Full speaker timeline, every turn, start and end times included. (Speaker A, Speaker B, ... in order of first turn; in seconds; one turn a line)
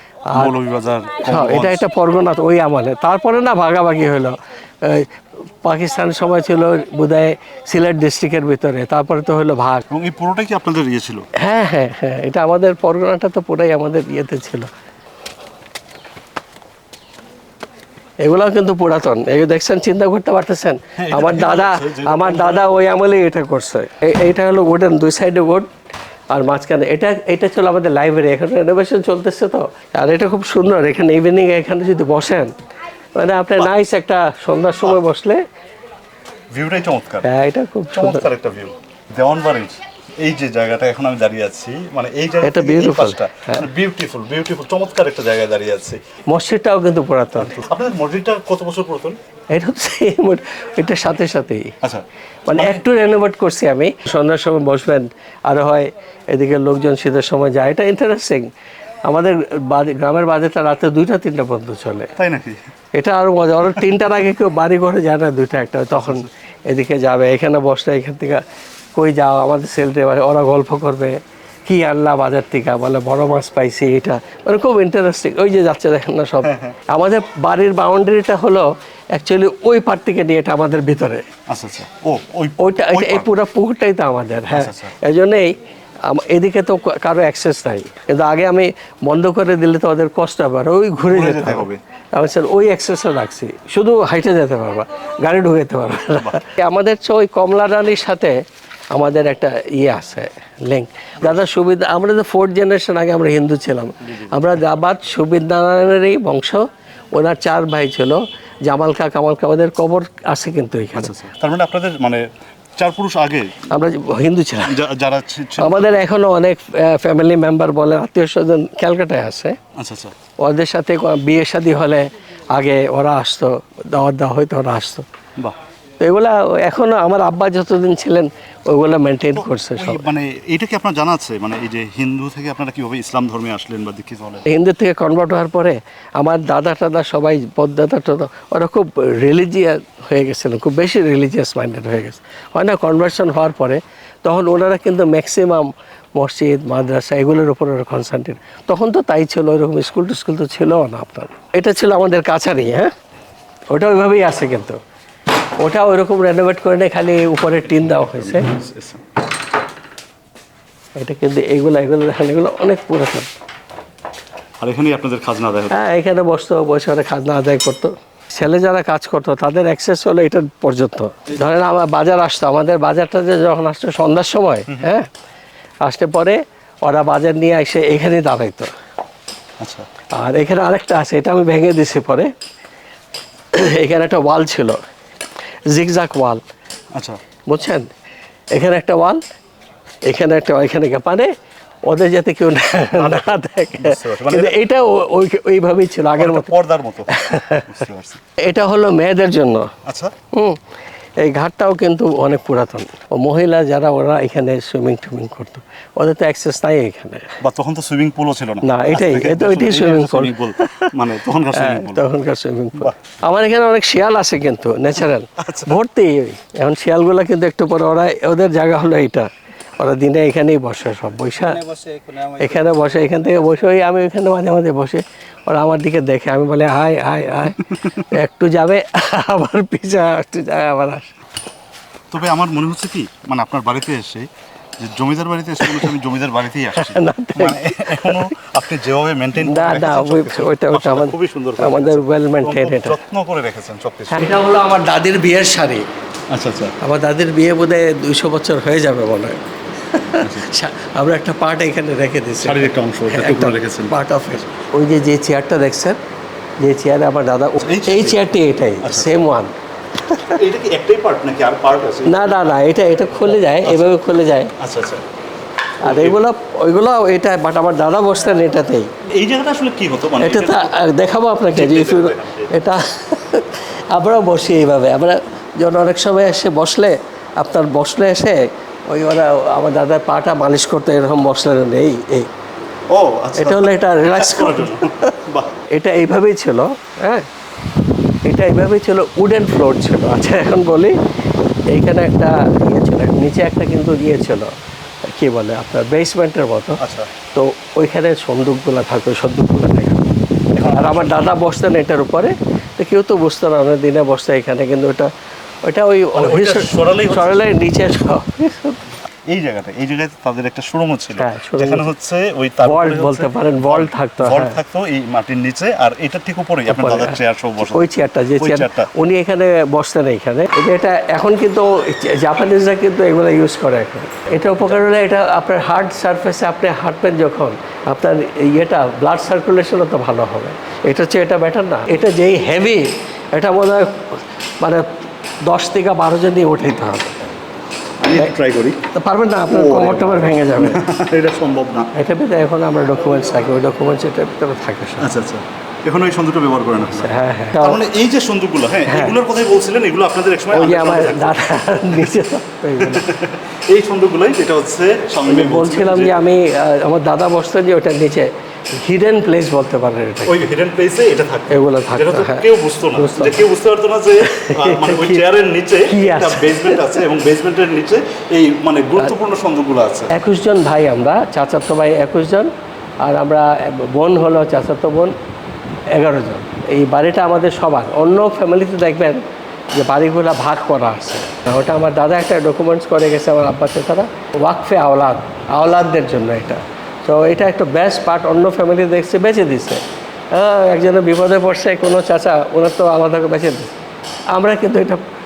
Speaker A: 0.3-0.5
Speaker B: 0.3-1.9
Speaker A: 1.2-9.8
Speaker B: 9.9-11.3
Speaker A: 11.3-14.7
Speaker A: 18.2-25.7
Speaker B: 21.0-22.8
Speaker A: 26.3-32.5
Speaker A: 33.1-35.4
Speaker B: 36.5-37.3
Speaker A: 37.2-38.2
Speaker B: 37.9-46.0
Speaker A: 42.4-43.6
Speaker A: 46.3-47.6
Speaker B: 47.4-49.2
Speaker A: 49.5-51.7
Speaker B: 51.8-52.8
Speaker A: 52.5-58.5
Speaker A: 59.1-62.1
Speaker B: 62.2-62.6
Speaker A: 62.9-68.4
Speaker B: 65.9-66.2
Speaker A: 69.0-81.3
Speaker B: 76.4-76.8
Speaker B: 81.5-83.3
Speaker A: 82.6-98.4
Speaker B: 84.5-84.9
Speaker B: 91.0-91.8
Speaker A: 98.9-111.2
Speaker B: 110.9-113.7
Speaker A: 113.7-114.8
Speaker B: 114.6-116.0
Speaker A: 115.6-119.6
Speaker B: 119.8-120.1
Speaker A: 120.4-125.0
Speaker A: 126.0-130.0
Speaker B: 129.3-134.4
Speaker A: 134.4-152.9
Speaker A: 153.7-154.8
Speaker A: 155.6-158.5
Speaker B: 157.6-159.1
Speaker A: 160.9-163.3
Speaker B: 164.6-165.8
Speaker A: 165.7-175.1
Speaker A: 175.8-178.7
Speaker B: 179.6-179.9
Speaker A: 180.1-182.3
Speaker A: 183.5-184.8
Speaker A: 185.7-186.4
Speaker B: 186.9-187.2
Speaker A: 187.5-187.9
Speaker A: 188.5-189.2
Speaker A: 190.0-191.3
Speaker A: 191.8-196.5
Speaker B: 192.9-194.6
Speaker B: 196.2-198.2
Speaker A: 197.1-197.7
Speaker A: 198.4-199.7
Speaker B: 199.8-200.1
Speaker A: 200.3-200.6
Speaker A: 201.2-207.4
Speaker B: 207.4-212.1
Speaker A: 208.6-221.6
Speaker B: 215.4-215.7
Speaker B: 221.4-223.1
Speaker A: 222.4-231.1
Speaker B: 232.1-244.4
Speaker A: 235.6-235.9
Speaker A: 236.8-238.3
Speaker A: 239.4-243.0
Speaker A: 244.1-245.9
Speaker B: 246.3-246.8
Speaker A: 246.8-256.0
Speaker B: 250.1-250.5
Speaker B: 252.4-254.4
Speaker A: 256.6-259.5
Speaker B: 257.6-258.3
Speaker B: 258.8-259.2
Speaker A: 260.1-260.4
Speaker B: 260.2-262.4
Speaker A: 262.1-264.5
Speaker B: 263.2-263.9
Speaker B: 264.6-265.0
Speaker B: 265.8-266.2
Speaker A: 265.8-268.9
Speaker B: 269.1-270.8
Speaker A: 270.2-282.3
Speaker B: 271.5-272.6
Speaker B: 282.9-285.6
Speaker A: 283.3-285.1
Speaker A: 285.7-287.3
Speaker A: 288.2-290.9
Speaker A: 291.7-294.5
Speaker A: 295.1-296.8
Speaker B: 296.8-297.1
Speaker A: 297.3-300.1
Speaker B: 300.5-301.3
Speaker A: 300.7-305.1
Speaker A: 305.6-308.8
Speaker B: 306.1-307.5
Speaker B: 309.3-318.9
Speaker A: 311.2-311.9
Speaker A: 312.6-314.6
Speaker A: 316.7-337.2
Speaker B: 324.5-324.8
Speaker B: 338.0-338.9
Speaker A: 338.9-340.8
Speaker B: 339.5-341.9
Speaker A: 341.9-345.1
Speaker B: 345.0-352.2
Speaker A: 346.9-347.8
Speaker A: 348.9-349.1
Speaker A: 350.5-353.1
Speaker B: 352.8-356.2
Speaker A: 355.2-360.4
Speaker B: 360.2-370.1
Speaker A: 361.5-363.4
Speaker A: 364.3-365.3
Speaker A: 365.9-367.0
Speaker A: 370.1-372.5
Speaker A: 373.0-375.1
Speaker A: 375.9-393.8
Speaker A: 394.3-395.0